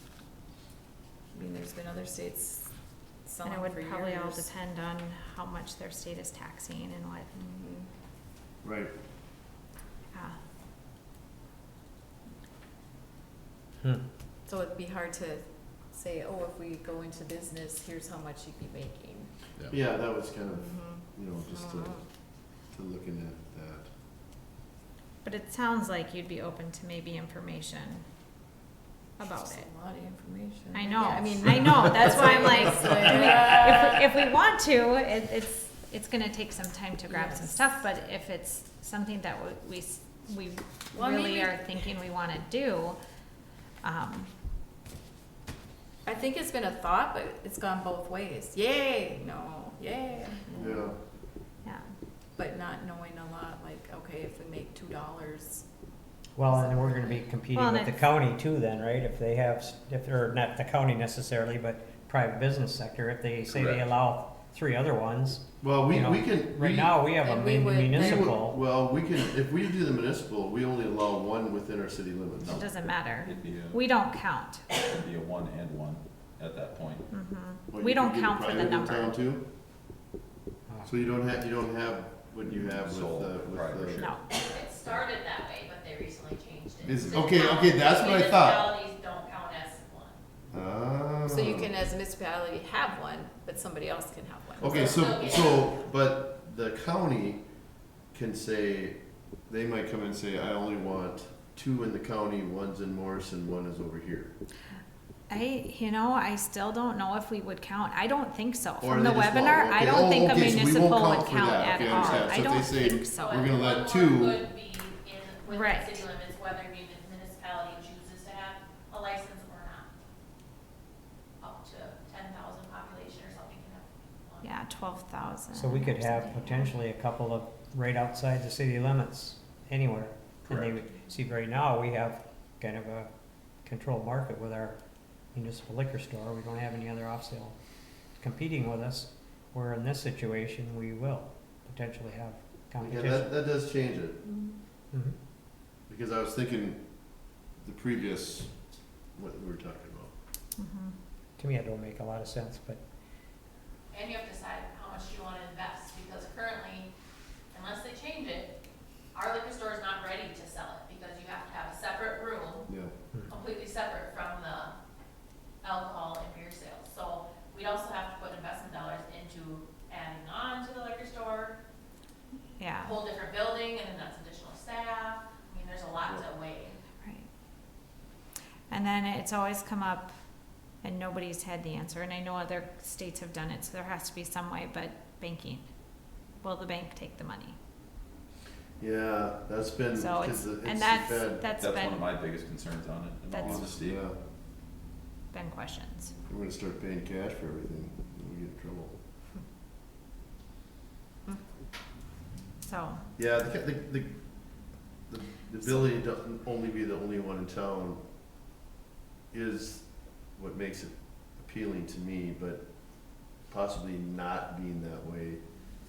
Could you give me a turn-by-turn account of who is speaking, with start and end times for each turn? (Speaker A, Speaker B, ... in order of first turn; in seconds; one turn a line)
Speaker A: 1.3-2.7
Speaker A: 3.2-4.5
Speaker B: 3.4-7.4
Speaker A: 7.4-7.9
Speaker C: 8.6-8.9
Speaker A: 14.4-19.3
Speaker C: 19.7-22.0
Speaker A: 20.5-22.0
Speaker C: 22.6-23.9
Speaker B: 25.2-28.0
Speaker B: 29.2-29.7
Speaker A: 29.4-34.0
Speaker B: 30.7-43.0
Speaker A: 37.1-37.5
Speaker A: 40.9-41.8
Speaker B: 43.8-44.3
Speaker A: 46.0-50.6
Speaker C: 50.5-50.9
Speaker A: 52.4-55.6
Speaker D: 56.4-68.6
Speaker A: 56.5-57.2
Speaker B: 57.5-58.0
Speaker E: 63.5-63.9
Speaker C: 65.6-66.9
Speaker A: 67.2-68.3
Speaker C: 67.9-72.6
Speaker B: 72.5-74.6
Speaker E: 73.2-73.8
Speaker E: 74.7-77.0
Speaker B: 77.1-79.2
Speaker C: 77.7-79.4
Speaker C: 80.8-84.0
Speaker E: 82.6-84.2
Speaker B: 84.0-84.3
Speaker F: 84.3-90.2
Speaker C: 86.8-88.7
Speaker C: 90.5-91.7
Speaker A: 91.2-95.0
Speaker C: 94.6-97.4
Speaker F: 94.6-95.7
Speaker C: 98.1-104.3
Speaker B: 105.3-113.5
Speaker C: 108.8-114.5
Speaker F: 112.0-112.4
Speaker F: 113.1-119.9
Speaker B: 115.5-116.0
Speaker F: 121.4-124.5
Speaker B: 124.4-126.7
Speaker D: 125.5-133.1
Speaker D: 133.6-134.8
Speaker D: 135.3-137.5
Speaker D: 138.2-143.3
Speaker C: 142.8-144.2
Speaker C: 145.9-146.8
Speaker C: 147.6-148.5
Speaker C: 149.1-150.1
Speaker B: 150.6-150.9
Speaker D: 151.4-152.8
Speaker F: 153.9-156.9
Speaker F: 157.5-158.5
Speaker F: 159.1-162.7
Speaker C: 162.7-162.9
Speaker F: 163.2-164.7
Speaker F: 165.6-171.6
Speaker B: 172.6-173.0
Speaker F: 172.8-176.8
Speaker B: 178.7-180.1
Speaker B: 180.8-185.6
Speaker B: 186.4-187.5
Speaker C: 188.8-191.4
Speaker B: 189.9-192.1
Speaker E: 191.5-194.0
Speaker B: 193.3-193.7
Speaker C: 193.4-194.2
Speaker B: 195.3-196.1
Speaker C: 196.3-198.9
Speaker B: 202.6-203.0
Speaker C: 203.2-208.0
Speaker C: 209.3-215.4